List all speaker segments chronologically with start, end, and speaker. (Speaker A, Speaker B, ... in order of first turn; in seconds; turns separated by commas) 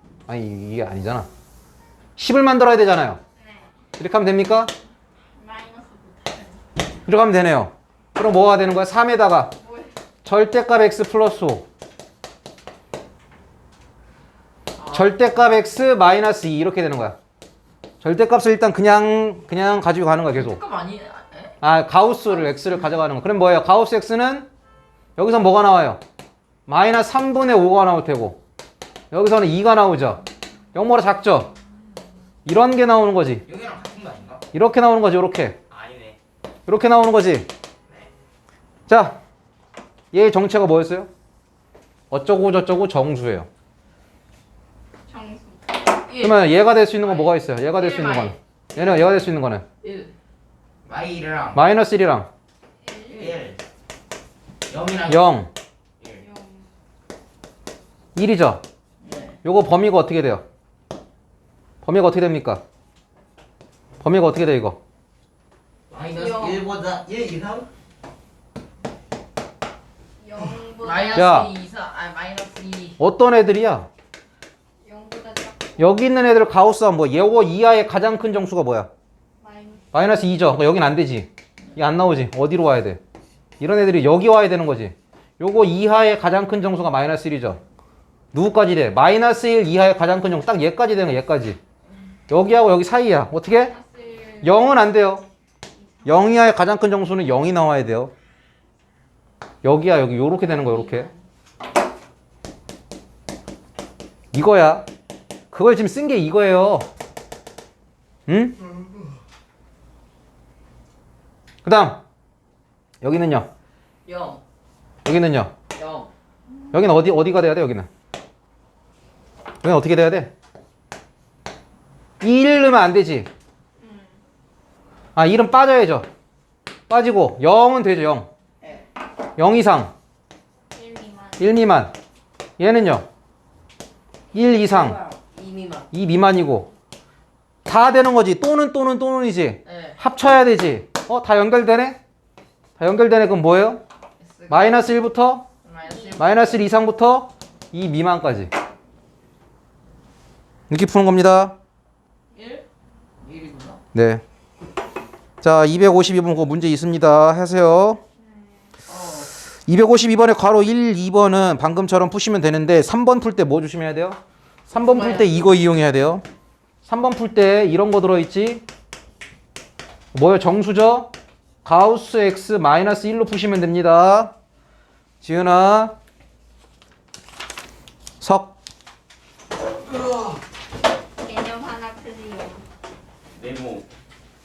Speaker A: 0.3-1.3, Speaker A: 2.2-3.2, Speaker B: 3.4-3.7, Speaker A: 4.0-4.7, Speaker B: 5.3-6.6, Speaker A: 7.1-9.5, Speaker B: 9.6-9.9, Speaker A: 10.2-11.7, Speaker C: 14.8-15.2, Speaker A: 14.8-17.2, Speaker A: 18.0-20.6, Speaker C: 20.3-21.5, Speaker A: 21.6-24.5, Speaker A: 25.2-26.0, Speaker A: 26.7-28.4, Speaker A: 29.1-30.2, Speaker A: 30.7-31.5, Speaker A: 32.5-33.4, Speaker D: 33.5-34.4, Speaker A: 34.5-35.6, Speaker D: 35.7-36.2, Speaker A: 36.7-37.5, Speaker A: 38.9-39.2, Speaker A: 40.1-41.1, Speaker A: 42.1-43.5, Speaker B: 45.1-45.9, Speaker C: 46.0-46.5, Speaker A: 46.2-49.6, Speaker C: 47.1-48.4, Speaker C: 49.8-50.1, Speaker D: 50.8-51.6, Speaker A: 51.5-52.3, Speaker B: 52.8-53.2, Speaker D: 53.1-53.6, Speaker D: 54.7-55.3, Speaker A: 55.1-55.5, Speaker B: 56.2-56.7, Speaker A: 58.1-58.6, Speaker C: 59.0-59.3, Speaker A: 59.4-60.4, Speaker A: 61.8-62.6, Speaker A: 64.0-64.8, Speaker D: 65.9-67.7, Speaker B: 66.2-66.6, Speaker B: 70.2-71.3, Speaker C: 70.8-73.0, Speaker A: 71.1-71.5, Speaker A: 73.0-73.9, Speaker B: 74.8-75.8, Speaker A: 75.8-78.9, Speaker B: 79.4-79.8, Speaker A: 79.9-83.0, Speaker A: 83.6-87.6, Speaker A: 88.3-91.6, Speaker A: 92.3-93.7, Speaker B: 93.5-94.6, Speaker A: 94.4-95.2, Speaker A: 96.0-98.1, Speaker A: 99.6-101.1, Speaker B: 100.6-101.2, Speaker A: 104.3-104.8, Speaker A: 105.5-106.9, Speaker A: 108.3-108.5, Speaker A: 111.6-112.0, Speaker A: 113.0-113.5, Speaker C: 114.0-114.4, Speaker A: 115.0-115.5, Speaker C: 115.7-116.1, Speaker A: 116.7-117.9, Speaker A: 119.6-120.3, Speaker A: 122.2-123.3, Speaker B: 123.8-124.2, Speaker A: 125.2-126.1, Speaker A: 126.9-128.3, Speaker A: 129.4-129.9, Speaker B: 130.7-131.5, Speaker A: 131.4-131.9, Speaker A: 132.6-133.1, Speaker A: 134.3-135.0, Speaker C: 134.6-135.9, Speaker A: 135.9-136.7, Speaker A: 137.7-142.0, Speaker C: 139.7-140.0, Speaker A: 142.8-143.8, Speaker C: 144.2-144.9, Speaker A: 144.5-145.4, Speaker C: 145.6-146.6, Speaker B: 145.8-146.2, Speaker A: 146.2-148.5, Speaker A: 150.7-151.5, Speaker C: 152.3-152.6, Speaker C: 153.2-153.8, Speaker A: 153.9-154.2, Speaker A: 155.4-158.0, Speaker C: 158.9-159.3, Speaker A: 159.7-164.2, Speaker A: 164.7-166.2, Speaker C: 164.8-165.3, Speaker A: 166.8-168.6, Speaker A: 170.1-171.1, Speaker A: 171.6-174.3, Speaker A: 175.2-175.9, Speaker A: 178.2-178.5, Speaker D: 179.9-180.4, Speaker B: 181.2-182.6, Speaker D: 183.3-183.9